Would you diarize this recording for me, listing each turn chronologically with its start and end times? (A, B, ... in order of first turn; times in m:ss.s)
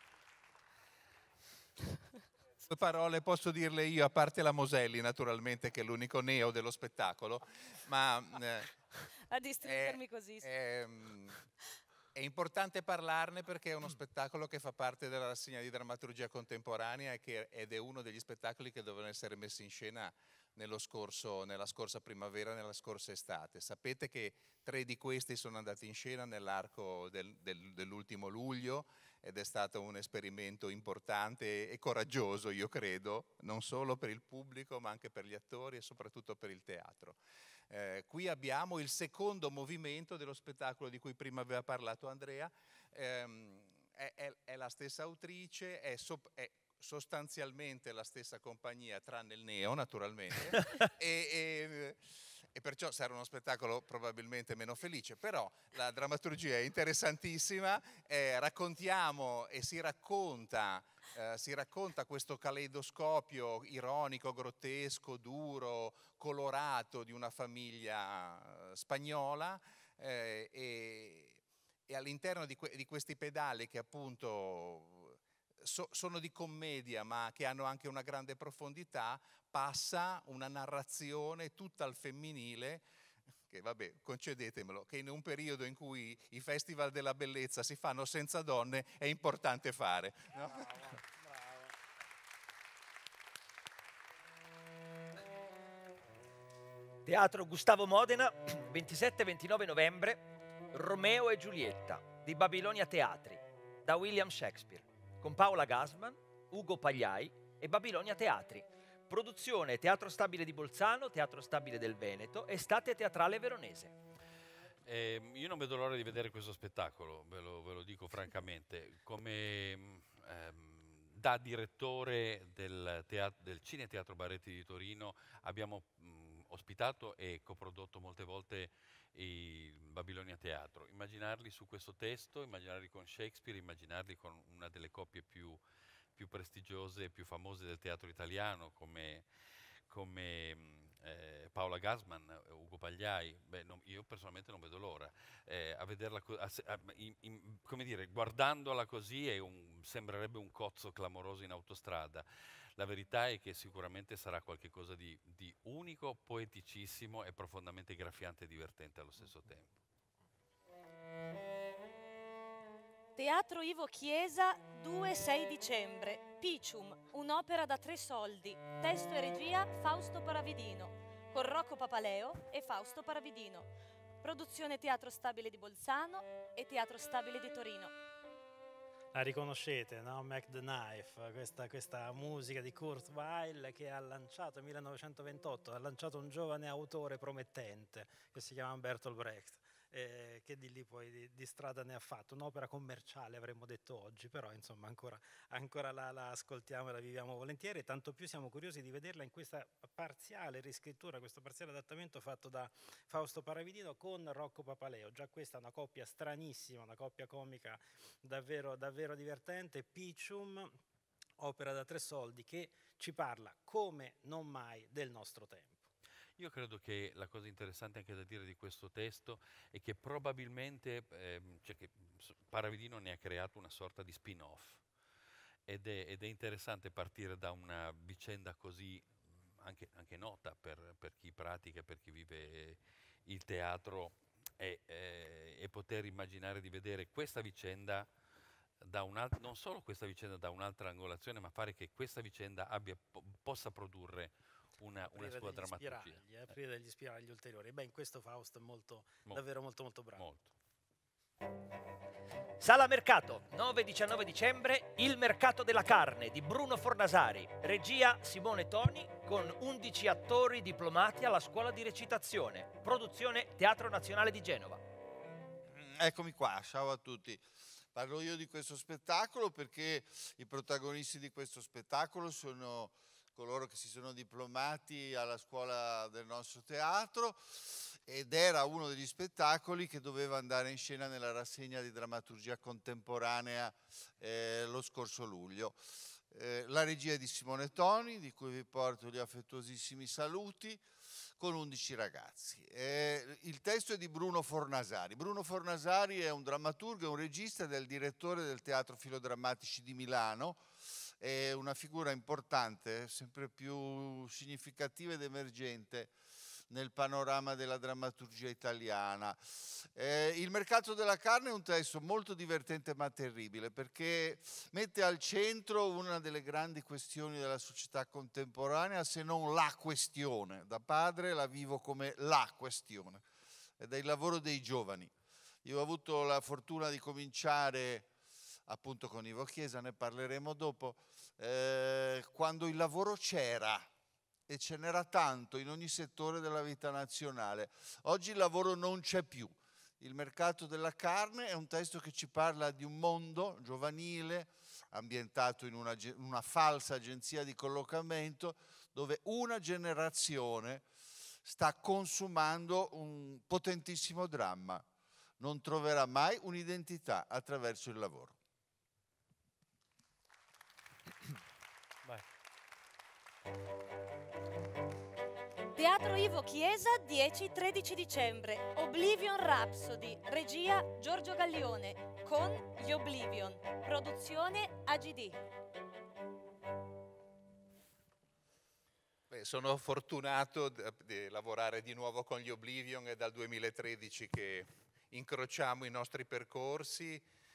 0:02.6-0:08.7 A
0:09.3-0:10.5 B
0:09.6-0:11.4 A
0:12.1-0:37.2 A
0:37.7-1:22.8 A
1:23.5-1:30.7 A
1:30.5-1:31.7 C
1:37.0-1:53.9 D
1:54.8-2:15.6 E
2:16.2-2:19.2 E
2:19.9-2:39.8 E
2:43.2-2:53.7 B
2:54.2-2:57.9 B
2:59.1-3:30.8 C
3:31.4-3:35.9 C
3:36.4-3:44.8 E
3:45.7-3:58.1 E
3:58.8-4:06.6 E
4:05.1-4:10.3 C
4:10.1-4:10.5 E
4:12.6-4:24.8 D
4:25.7-4:50.8 F
4:51.4-5:00.6 F
5:01.2-5:06.1 F
5:06.7-5:23.2 F
5:23.8-5:25.1 F
5:25.6-5:28.1 F
5:28.7-5:33.9 F
5:34.5-5:50.9 F
5:51.4-5:54.8 F
5:55.4-5:58.4 F
6:05.7-6:15.4 B
6:19.3-6:27.2 A